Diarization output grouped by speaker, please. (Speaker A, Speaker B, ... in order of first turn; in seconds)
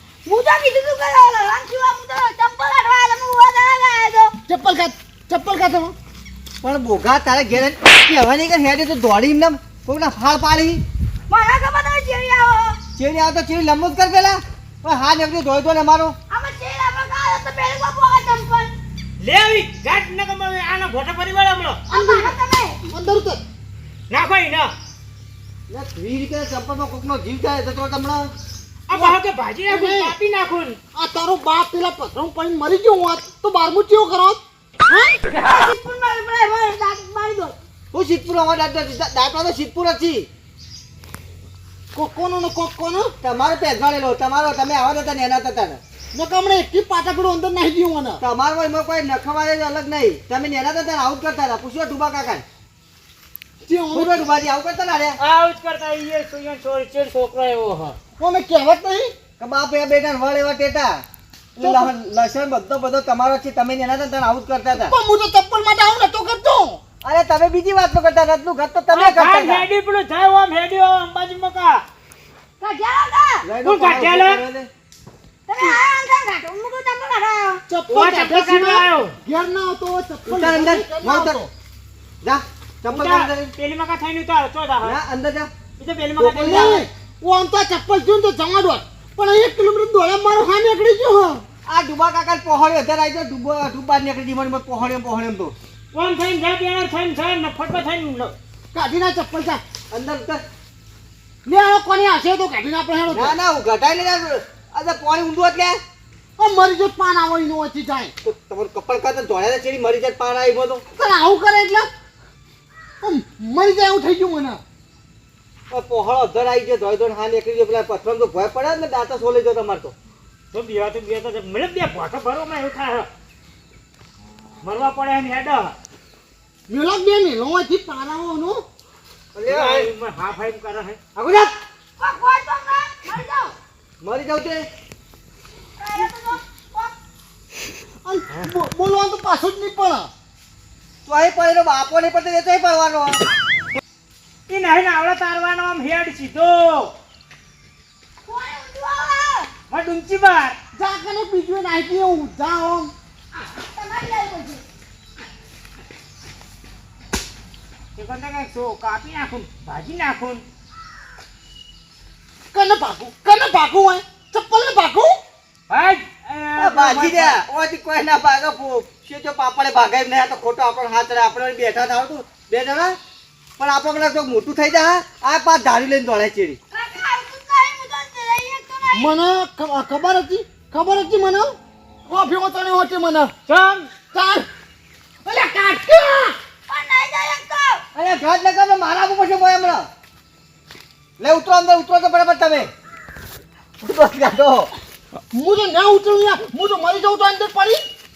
Speaker A: 0.2-4.3, 11.3-12.8, 16.3-18.7, 21.9-22.9, 35.3-37.6, 72.6-73.5, 75.5-77.6, 132.0-133.6, 135.8-136.9, 148.2-149.5, 153.3-154.6, 176.7-179.1, 186.7-187.8
Speaker B: 4.5-5.9, 21.9-23.4, 28.9-30.2, 30.9-35.2, 41.9-43.1, 46.1-48.2, 53.7-54.3, 58.2-59.1, 61.6-61.9, 64.7-66.8, 77.7-81.5, 86.2-91.4, 98.7-99.6, 101.4-103.4, 106.4-108.1, 110.9-111.9, 113.0-114.6, 126.7-128.6, 138.0-140.1, 150.7-152.9, 162.5-165.2, 178.9-183.3, 184.1-184.4, 185.2-186.3, 195.3-197.8
Speaker C: 6.6-10.8, 13.0-16.1, 25.7-28.3, 37.9-40.3, 43.2-45.8, 48.2-52.4, 53.9-55.2, 59.4-61.0, 61.6-64.9, 67.0-69.7, 73.4-74.7, 80.2-81.4, 82.2-83.5, 84.8-85.5, 86.2-86.8, 91.7-95.5, 99.9-100.4, 103.1-105.8, 108.2-110.8, 115.7-119.9, 129.3-129.9, 131.2-131.5, 134.0-134.7, 141.1-143.2, 166.6-173.0, 173.6-176.6, 187.9-189.9, 191.2-192.7, 193.8-194.7
Speaker D: 19.2-21.9, 24.1-24.7, 28.9-30.8, 55.2-58.0, 68.9-71.8, 73.6-74.4, 77.9-79.2, 82.9-85.0, 85.8-86.8, 95.9-98.3, 120.5-123.1, 124.6-125.8, 129.4-131.0, 144.5-146.9, 149.7-150.6, 157.9-160.4, 165.7-167.4, 183.5-183.9